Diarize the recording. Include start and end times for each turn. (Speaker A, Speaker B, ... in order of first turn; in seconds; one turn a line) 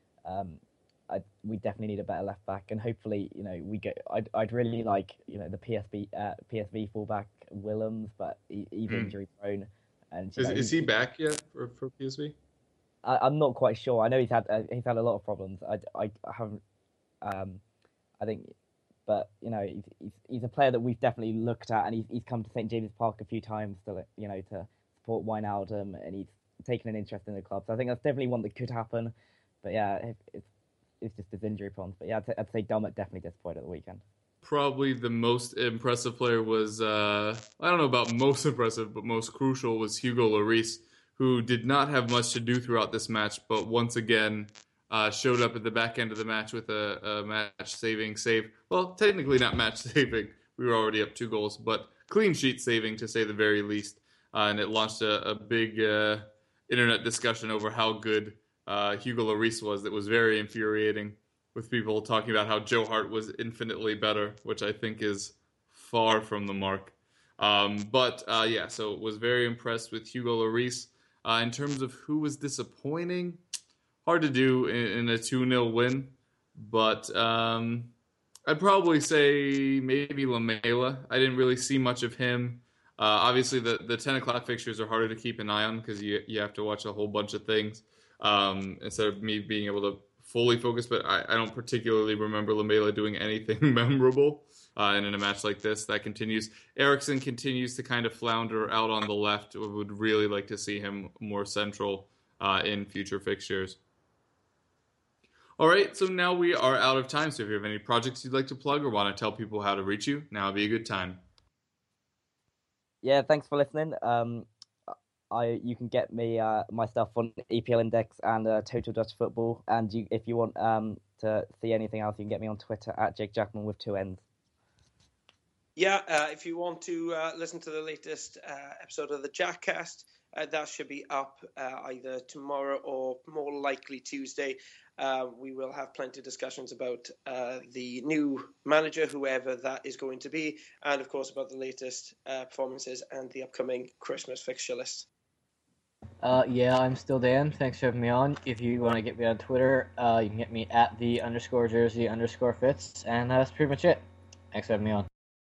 Speaker A: 0.2-10.9
Speaker B: 8.9-9.1
Speaker B: 10.4-12.3
Speaker A: 13.0-16.6
Speaker A: 17.2-17.6
Speaker A: 18.2-18.5
Speaker A: 19.1-30.5
Speaker A: 31.0-34.0
Speaker B: 34.4-73.4
Speaker B: 74.0-77.9
Speaker B: 78.5-103.8
Speaker B: 105.6-111.2
Speaker A: 113.0-124.2
Speaker C: 125.8-145.1
Speaker D: 146.2-155.1